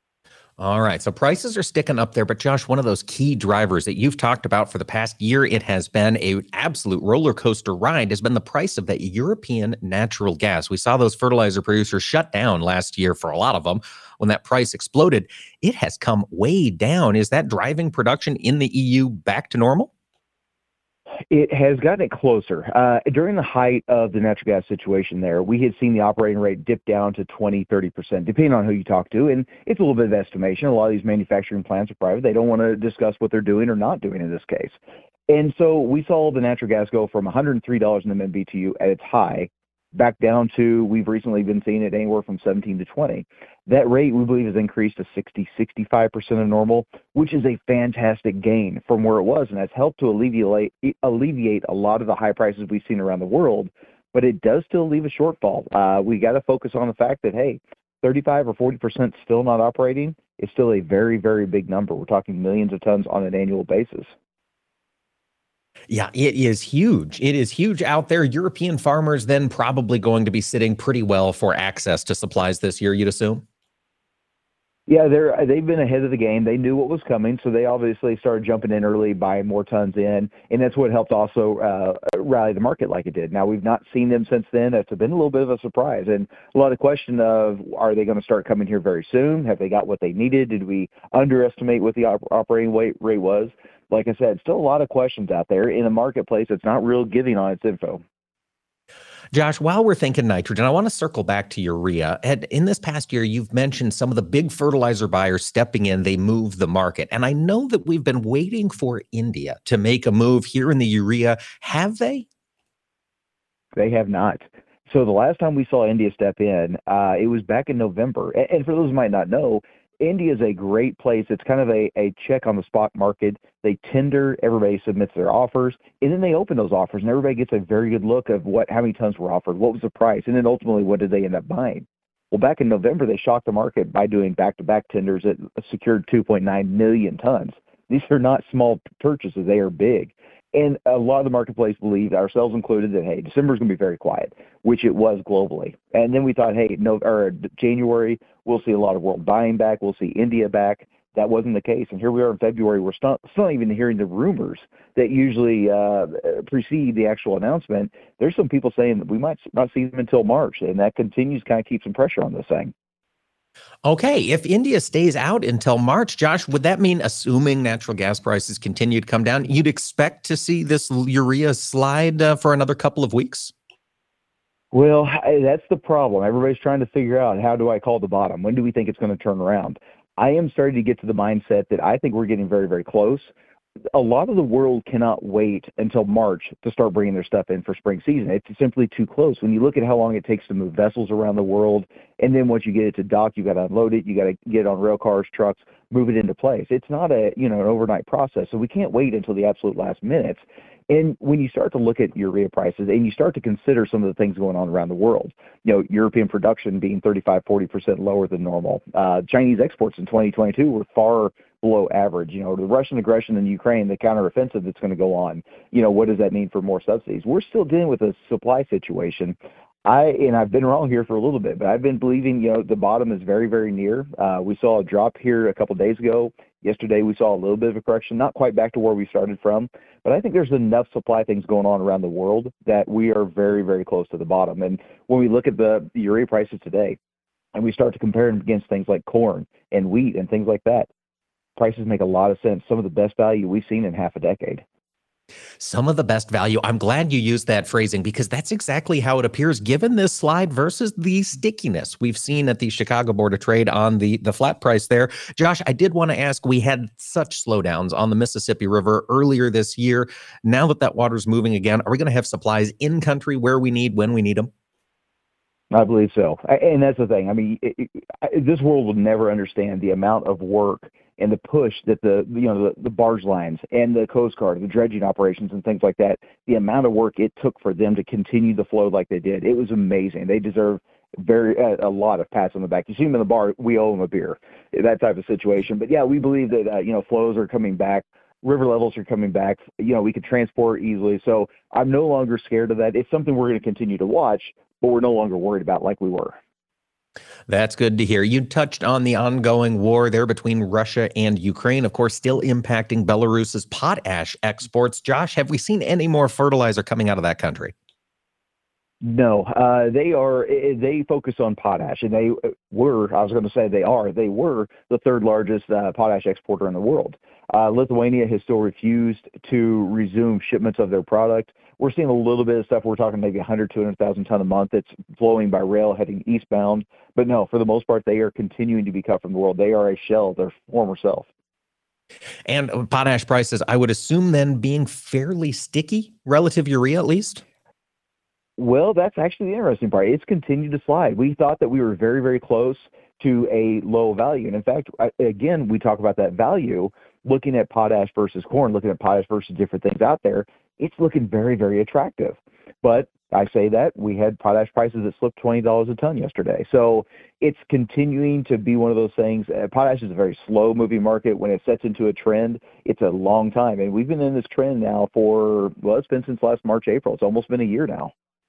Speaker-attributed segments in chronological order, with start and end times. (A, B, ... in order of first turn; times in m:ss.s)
0:00.6-0:19.9 A
0:21.3-0:34.8 B
0:35.3-1:04.1 B
1:05.9-1:13.4 A
1:14.9-1:38.0 B
1:39.3-1:52.3 A
1:53.8-2:42.7 B
2:43.8-2:53.5 A
2:54.7-3:03.3 B
3:03.9-3:57.0 B
3:57.6-4:00.9 B
4:01.6-4:04.6 B
4:05.6-4:24.5 A
4:25.7-4:56.4 B
4:57.5-5:07.7 A
5:09.0-5:31.3 B
5:32.5-5:37.4 A
5:38.6-6:08.1 B